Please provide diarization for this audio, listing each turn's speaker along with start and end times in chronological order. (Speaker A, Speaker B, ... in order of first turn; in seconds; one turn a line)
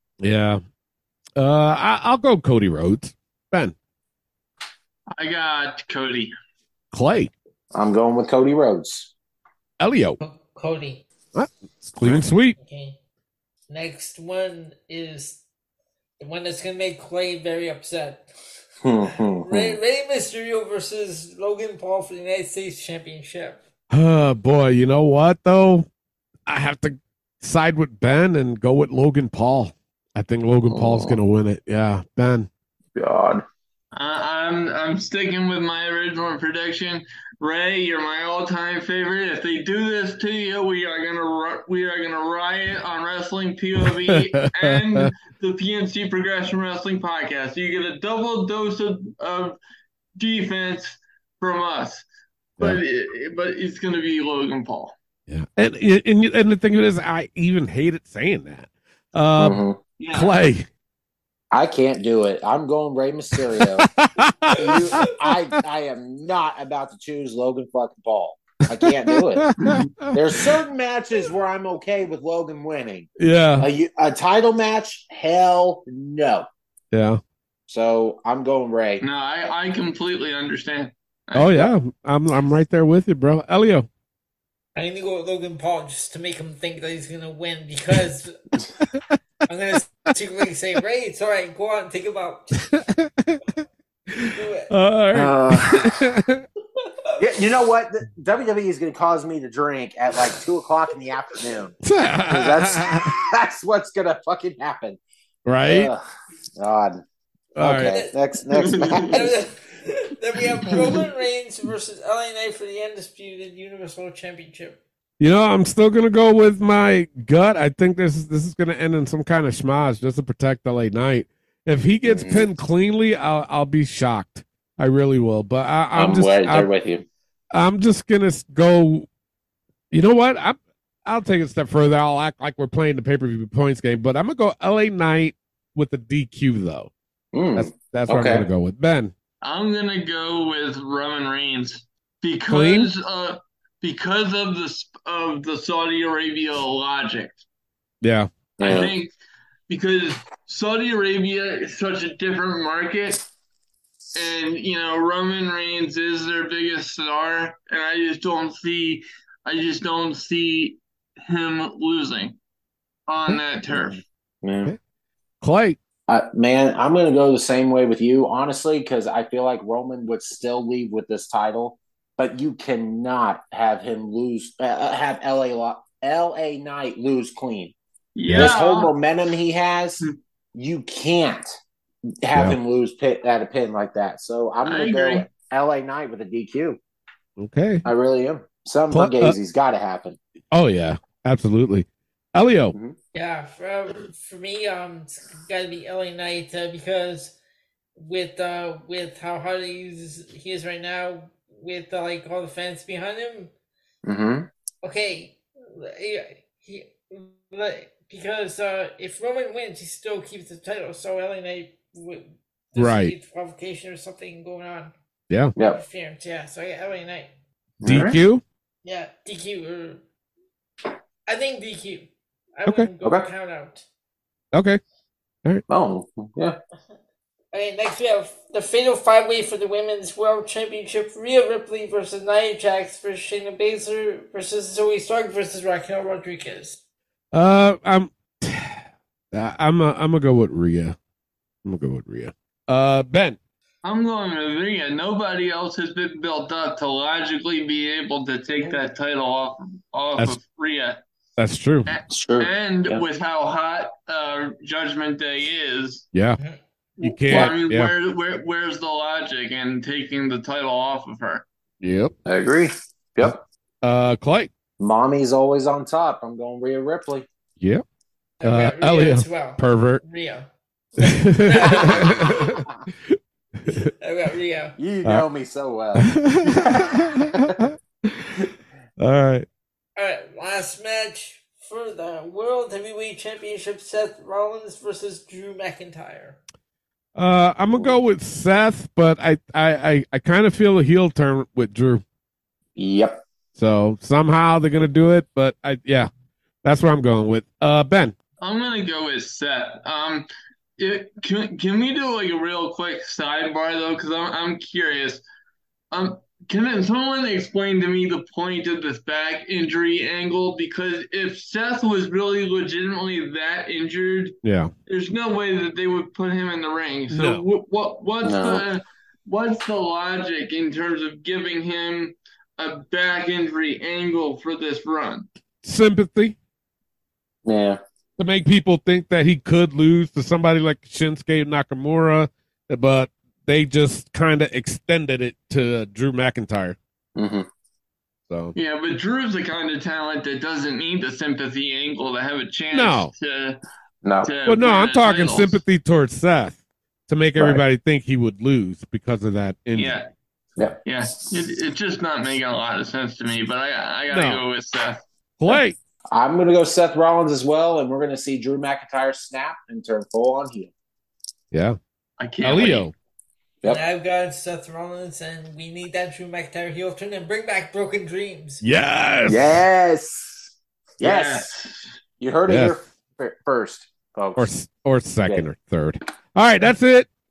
Speaker A: 0.2-0.6
Speaker A: 1.4-3.7
Speaker B: 5.2-6.3
Speaker A: 6.9-7.3
Speaker C: 7.7-9.1
Speaker A: 9.8-10.2
Speaker D: 10.2-11.0
Speaker A: 11.3-12.6
Speaker D: 12.6-13.0
Speaker D: 13.7-15.4
Speaker D: 16.2-18.3
Speaker C: 18.8-19.8
Speaker D: 19.1-23.6
Speaker A: 23.9-25.9
Speaker A: 26.5-32.5
Speaker C: 30.7-31.2
Speaker C: 32.9-33.4
Speaker B: 33.9-49.6
Speaker A: 44.6-45.1
Speaker B: 50.2-52.0
Speaker B: 52.6-54.9
Speaker A: 55.3-59.6
Speaker C: 59.4-59.8
Speaker B: 60.0-60.4
Speaker A: 60.1-60.7
Speaker C: 61.5-63.9
Speaker A: 63.6-65.1
Speaker C: 64.5-69.5
Speaker A: 68.8-70.1
Speaker C: 70.1-76.5
Speaker A: 73.2-73.7
Speaker A: 76.9-77.2
Speaker C: 77.7-79.0
Speaker B: 79.0-81.7
Speaker A: 81.3-83.9
Speaker D: 84.8-88.4
Speaker D: 89.5-92.7
Speaker A: 92.7-93.4
Speaker A: 94.1-96.4
Speaker D: 94.3-94.7
Speaker C: 95.1-96.1
Speaker C: 97.2-101.7
Speaker A: 101.8-103.1
Speaker C: 102.3-105.0
Speaker A: 105.5-105.9
Speaker C: 105.6-106.0
Speaker C: 106.6-107.0
Speaker A: 107.6-107.9
Speaker C: 107.6-109.3
Speaker D: 107.8-108.2
Speaker B: 108.6-109.1
Speaker D: 109.1-114.8
Speaker A: 115.2-126.7
Speaker C: 122.0-122.5
Speaker C: 125.9-127.1
Speaker A: 127.5-129.1
Speaker A: 129.9-136.9
Speaker C: 137.3-138.5
Speaker A: 137.6-139.1
Speaker B: 139.4-147.4
Speaker A: 142.5-142.9
Speaker A: 148.0-148.3
Speaker C: 148.6-148.9
Speaker B: 148.6-149.1
Speaker B: 149.7-153.2
Speaker B: 154.1-162.4
Speaker B: 163.1-164.0
Speaker C: 163.7-164.7
Speaker A: 165.4-165.8
Speaker C: 166.1-177.7
Speaker B: 178.2-178.9
Speaker A: 178.3-178.5
Speaker C: 178.3-180.0
Speaker C: 180.6-181.6
Speaker C: 182.2-186.8
Speaker B: 184.6-185.3
Speaker A: 187.4-187.9
Speaker C: 187.8-190.2
Speaker A: 188.9-189.3
Speaker A: 190.5-192.7
Speaker D: 193.1-197.3
Speaker D: 197.9-203.5
Speaker C: 204.0-204.5
Speaker D: 204.8-214.9
Speaker A: 212.8-213.1
Speaker C: 215.6-215.8
Speaker D: 215.6-217.3
Speaker C: 217.8-218.2
Speaker A: 217.8-218.4
Speaker D: 218.8-220.0
Speaker D: 221.3-223.8
Speaker C: 223.0-223.3
Speaker A: 224.5-224.8
Speaker C: 225.7-226.6
Speaker D: 227.5-236.8
Speaker A: 237.3-240.9
Speaker A: 241.6-243.4
Speaker B: 243.8-251.0
Speaker A: 251.4-251.9
Speaker B: 251.9-256.1
Speaker C: 252.1-253.0
Speaker A: 256.1-256.4
Speaker B: 257.0-261.4
Speaker A: 257.0-257.9
Speaker A: 261.8-262.1
Speaker C: 262.3-263.4
Speaker A: 263.2-264.5
Speaker C: 264.8-267.3
Speaker D: 268.4-270.5
Speaker A: 268.4-270.0
Speaker A: 271.0-273.9
Speaker D: 271.1-272.4
Speaker D: 274.0-274.8
Speaker C: 274.8-277.7
Speaker A: 276.0-278.4
Speaker A: 279.0-279.4
Speaker D: 280.0-286.4
Speaker A: 287.1-292.0
Speaker C: 292.8-293.2
Speaker A: 293.6-296.1
Speaker A: 296.6-298.1
Speaker B: 298.4-300.3
Speaker B: 300.8-305.2
Speaker B: 305.9-325.3
Speaker A: 314.4-314.7
Speaker A: 317.1-317.4
Speaker C: 318.2-318.6
Speaker A: 325.6-326.4
Speaker C: 327.4-327.8
Speaker A: 328.2-336.8
Speaker C: 337.1-337.5
Speaker A: 338.3-338.6
Speaker B: 338.6-343.6
Speaker A: 342.7-343.1
Speaker C: 344.0-344.3
Speaker B: 344.2-345.6
Speaker A: 344.4-350.0
Speaker C: 347.4-347.6
Speaker B: 349.7-350.1
Speaker B: 350.9-355.0
Speaker A: 354.1-354.4
Speaker A: 355.4-355.8
Speaker C: 356.1-360.7
Speaker A: 361.5-361.8
Speaker B: 362.2-362.9
Speaker A: 362.4-362.9
Speaker D: 363.6-368.6
Speaker A: 368.6-369.6
Speaker C: 369.3-371.5
Speaker B: 371.0-371.9
Speaker C: 372.2-374.5
Speaker A: 372.5-372.8
Speaker A: 374.4-377.1